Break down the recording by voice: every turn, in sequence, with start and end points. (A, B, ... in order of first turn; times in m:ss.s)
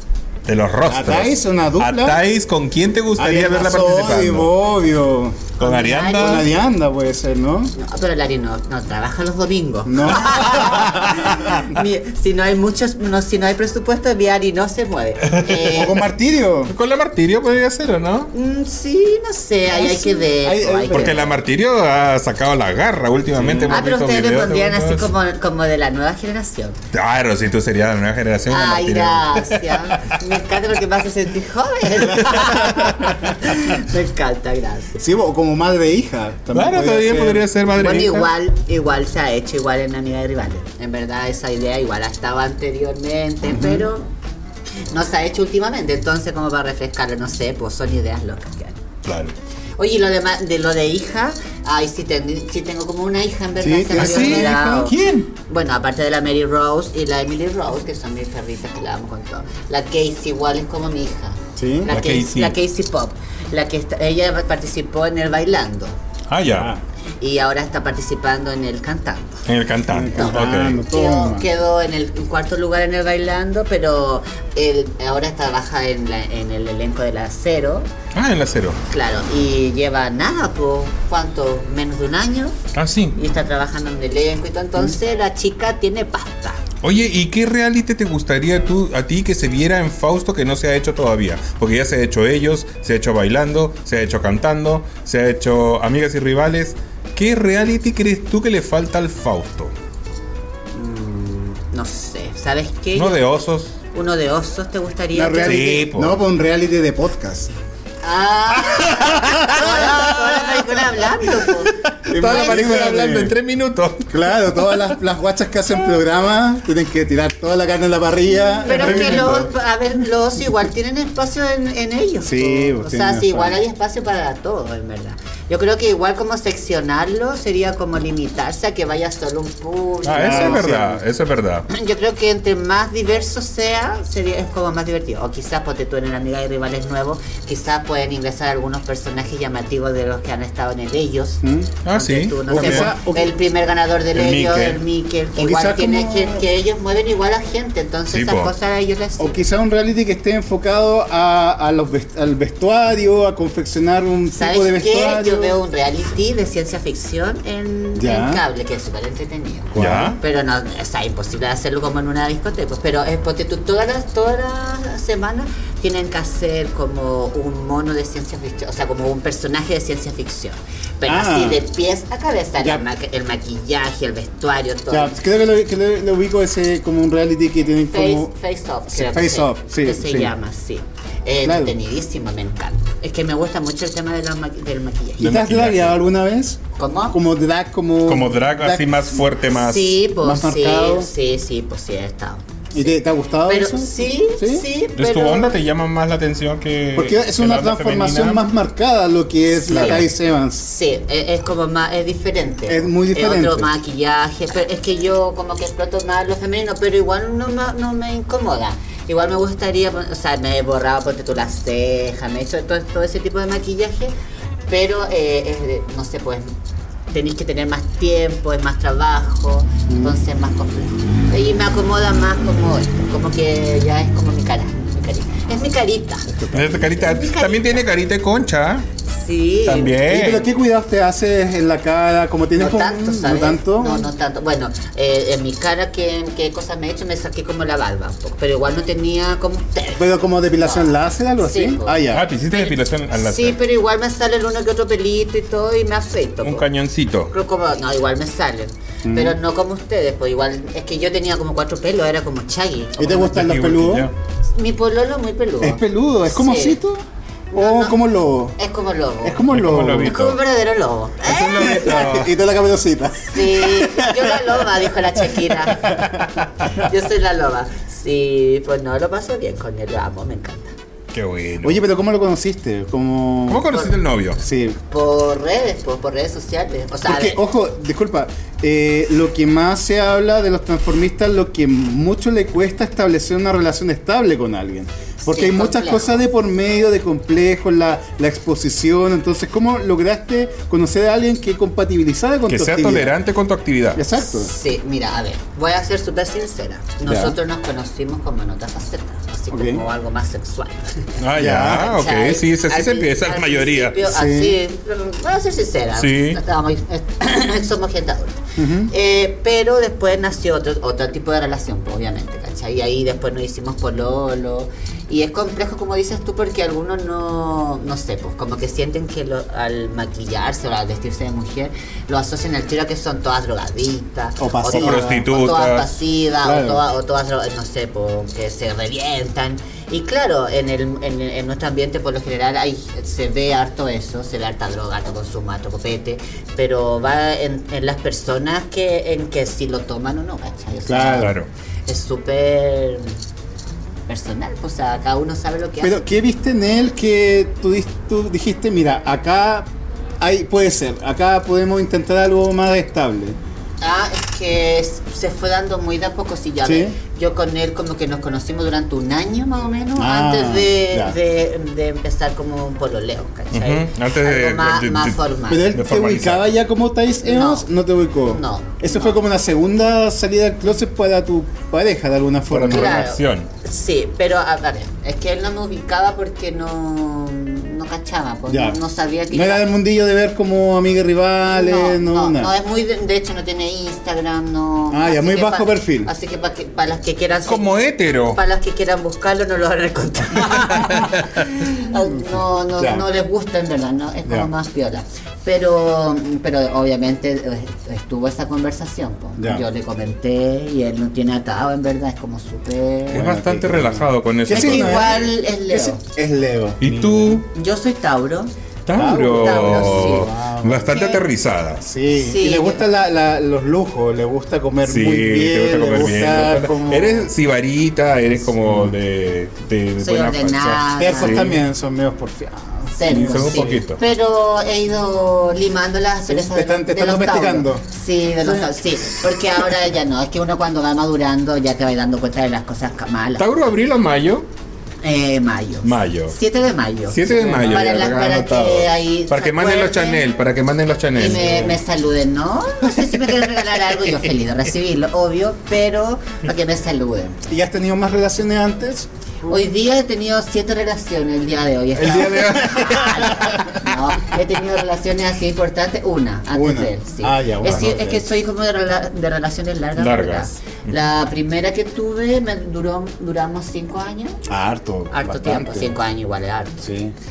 0:00.4-0:04.5 A
0:00.8-0:02.2 B
0:03.2-0:05.5 B
0:05.6-0:06.5 A
0:05.6-0:06.5 C
0:06.1-0:07.7 B
0:07.8-0:15.9 C
0:09.8-0:11.5 B
0:15.3-0:15.7 A
0:15.7-0:16.7 B
0:16.7-0:18.3 A
0:18.3-0:21.3 C
0:19.7-0:21.2 B
0:20.9-0:25.1 A
0:23.4-0:23.8 B
0:23.7-0:26.8 C
0:26.9-0:30.1 A
0:28.5-0:34.9 C
0:35.0-0:37.5 B
0:36.5-0:38.3 A
0:37.8-0:44.1 C
0:43.4-0:43.8 B
0:44.9-0:48.8 C
0:49.0-0:49.3 A
0:49.8-1:05.9 C
0:53.6-0:54.9 B
0:54.0-0:55.3 A
1:01.6-1:01.9 B
1:01.9-1:02.5 A
1:06.3-1:06.7 A
1:06.5-1:06.8 B
1:07.2-1:09.4 C
1:09.4-1:10.8 A
1:09.9-1:11.5 B
1:10.1-1:17.9 C
1:18.1-1:18.8 A
1:18.9-1:22.6 C
1:22.7-1:23.2 A
1:23.1-1:26.6 C
1:26.8-1:39.7 A
1:40.7-1:43.2 C
1:42.9-1:43.8 A
1:43.9-1:45.8 C
1:45.1-1:47.5 B
1:45.4-1:46.2 A
1:48.0-1:52.6 C
1:49.0-1:50.5 A
1:49.1-1:50.1 B
1:52.0-1:53.3 B
1:52.1-1:54.1 A
1:54.1-1:59.5 B
1:58.6-2:10.7 C
1:58.7-1:59.4 A
2:02.2-2:03.6 B
2:10.0-2:11.7 A
2:10.1-2:11.0 B
2:11.7-2:29.4 C
2:21.4-2:21.7 B
2:21.8-2:22.9 A
2:22.5-2:23.3 B
2:24.1-2:24.8 A
2:25.4-2:26.4 B
2:28.1-2:28.5 A
2:29.2-2:35.5 B
2:34.3-2:55.1 C
2:37.9-2:38.4 B
2:39.7-2:40.2 B
2:39.8-2:40.2 A
2:51.0-2:51.6 B
2:54.9-2:58.3 B
2:57.9-3:05.3 C
2:58.9-3:00.3 B
3:01.4-3:01.7 B
3:05.2-3:09.0 B
3:05.2-3:06.0 A
3:06.8-3:07.2 C
3:08.0-3:10.0 A
3:09.5-3:12.9 C
3:10.2-3:11.1 B
3:12.7-3:14.7 B
3:13.4-3:15.5 C
3:15.0-3:18.4 A
3:16.9-3:20.6 B
3:19.7-3:20.1 C
3:19.7-3:20.0 A
3:20.6-3:34.1 C
3:22.7-3:23.7 B
3:34.7-3:36.5 C
3:37.1-3:46.3 C
3:39.9-3:40.2 B
3:46.3-3:47.0 B
3:46.5-3:48.8 A
3:47.0-3:47.8 C
3:49.1-3:50.0 C
3:49.6-3:50.5 A
3:50.1-3:54.1 B
3:52.6-4:00.1 C
4:00.0-4:02.2 B
4:00.6-4:06.6 C
4:02.1-4:03.6 A
4:06.4-4:07.3 A
4:07.3-4:13.4 C
4:09.0-4:09.4 B
4:13.0-4:14.1 B
4:13.1-4:14.1 A
4:14.5-4:16.8 C
4:15.6-4:18.6 B
4:17.5-4:18.0 C
4:18.6-4:19.5 C
4:19.2-4:20.2 B
4:19.5-4:20.4 A
4:20.0-4:22.1 C
4:21.2-4:22.3 A
4:21.5-4:24.5 B
4:23.3-4:30.7 C
4:25.7-4:26.3 B
4:31.1-4:31.8 A
4:31.6-4:33.7 B
4:33.5-4:34.4 A
4:34.4-4:34.8 B
4:34.9-4:37.4 C
4:37.0-4:53.2 B
4:45.2-4:46.2 C
4:52.5-4:54.0 A
4:53.9-4:54.5 B
4:54.2-5:41.3 C
4:57.0-4:57.4 B
4:59.5-4:59.8 B
5:01.2-5:04.0 A
5:01.3-5:01.9 B
5:04.0-5:04.6 B
5:06.0-5:06.4 A
5:08.6-5:08.9 B
5:24.4-5:25.2 B
5:24.6-5:25.9 A
5:26.4-5:26.8 B
5:40.9-5:41.3 B
5:41.1-5:41.5 A
5:41.9-5:43.1 C
5:44.1-5:46.0 C
5:45.8-5:49.7 B
5:50.2-5:53.4 B
5:53.8-6:05.7 C
5:56.6-5:57.0 B
6:00.0-6:01.2 B
6:03.5-6:06.4 A
6:05.5-6:13.1 B
6:07.2-6:07.7 C
6:08.3-6:09.2 C
6:12.5-6:13.5 A
6:12.7-6:19.7 C
6:18.5-6:22.5 B
6:21.5-6:43.3 C
6:24.9-6:26.1 B
6:27.5-6:28.4 A
6:32.8-6:33.0 B
6:39.4-6:39.6 B
6:43.1-6:45.2 A
6:43.1-6:47.4 B
6:44.5-6:46.0 C
6:46.8-6:47.4 A
6:47.4-6:48.5 C
6:48.8-6:51.8 A
6:48.9-6:50.9 B
6:49.2-6:50.3 C
6:50.9-6:51.2 C
6:51.8-6:57.3 B
6:52.2-6:52.8 C
6:54.8-7:01.6 A
6:58.6-6:59.0 B
7:00.0-7:01.5 C
7:01.0-7:03.8 B
7:02.9-7:13.4 C
7:03.0-7:04.0 A
7:06.3-7:07.8 B
7:13.4-7:14.5 A
7:15.0-7:20.2 C
7:15.8-7:16.4 A
7:17.1-7:21.8 A
7:17.3-7:17.8 B
7:21.1-7:27.4 C
7:27.5-7:29.1 B
7:29.4-7:44.4 C
7:32.0-7:33.6 B
7:32.0-7:33.4 A
7:36.5-7:38.2 B
7:37.6-7:37.9 A
7:40.0-7:41.0 A
7:44.5-7:45.9 B
7:45.1-7:46.8 C
7:46.8-7:47.1 B